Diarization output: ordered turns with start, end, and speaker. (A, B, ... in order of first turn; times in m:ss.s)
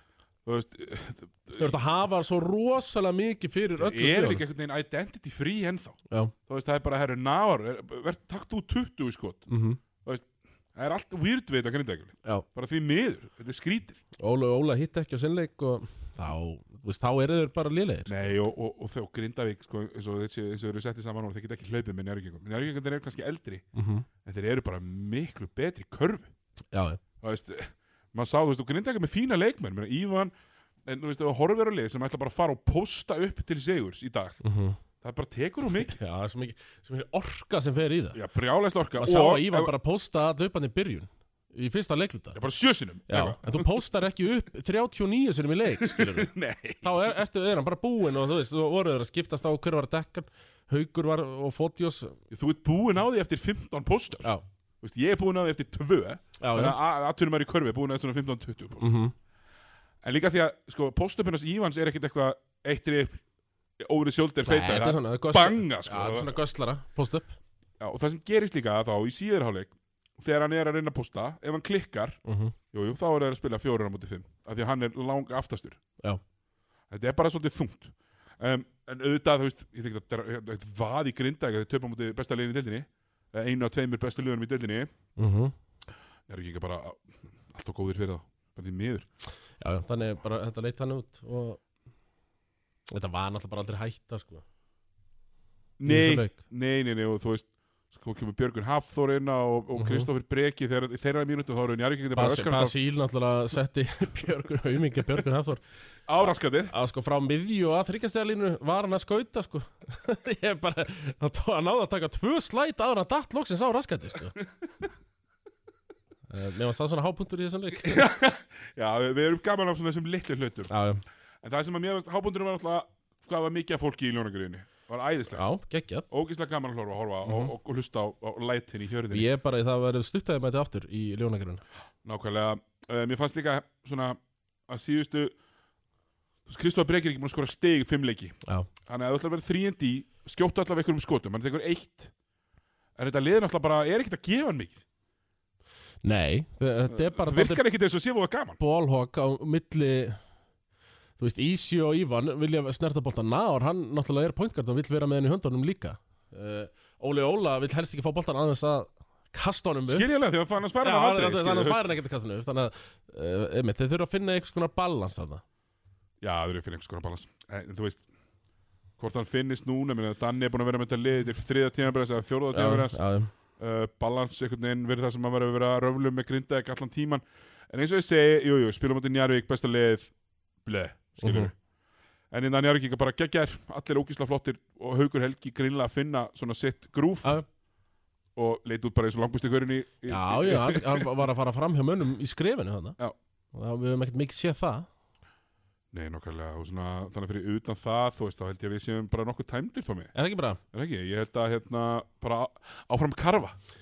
0:00.4-0:01.8 A
0:01.6-0:04.4 B
0:03.8-0:09.5 A
0:09.5-0:09.8 B
0:10.0-0:14.0 A
0:14.2-0:18.3 B
0:18.1-0:23.6 A
0:23.7-0:24.1 B
0:24.2-0:26.3 A
0:26.7-0:27.0 B
0:27.2-0:30.3 A
0:30.8-0:34.4 A
0:34.4-0:34.8 B
0:35.0-0:36.0 A
0:35.8-0:38.2 B
0:38.1-0:39.7 A
0:39.0-0:42.4 B
0:42.3-0:43.6 A
0:43.1-0:52.2 B
0:45.8-0:47.1 A
0:52.3-0:58.9 A
0:56.4-0:56.8 B
0:58.8-0:59.1 B
1:00.0-1:03.2 A
1:03.8-1:06.4 A
1:04.4-1:07.4 B
1:07.8-1:12.2 A
1:12.2-1:12.5 B
1:12.7-1:15.8 A
1:16.9-1:24.9 A
1:25.2-1:25.5 B
1:26.3-1:29.1 A
1:29.6-1:31.6 B
1:32.9-1:34.4 B
1:35.8-1:42.7 A
1:35.8-1:36.4 B
1:39.8-1:40.1 B
1:42.1-1:45.6 B
1:46.1-1:46.7 A
1:46.7-1:54.4 B
1:56.3-1:58.0 B
1:57.8-2:00.7 A
2:00.7-2:01.0 B
2:01.4-2:05.4 A
2:05.3-2:06.1 B
2:06.1-2:09.3 A
2:07.2-2:07.5 B
2:09.1-2:11.6 B
2:12.0-2:15.4 A
2:16.5-2:22.1 A
2:23.0-2:24.8 A
2:26.0-2:27.6 B
2:26.9-2:28.6 A
2:28.6-2:30.2 B
2:31.2-2:40.0 B
2:39.9-2:41.9 A
2:40.8-2:45.4 B
2:46.2-2:48.0 A
2:49.0-2:53.0 A
2:52.5-2:53.3 B
2:53.6-3:00.1 A
3:00.6-3:01.5 A
3:01.2-3:01.5 B
3:02.3-3:07.4 A
3:08.4-3:11.0 A
3:10.1-3:13.0 B
3:13.5-3:14.9 B
3:15.9-3:20.1 A
3:20.1-3:20.6 B
3:20.7-3:23.6 A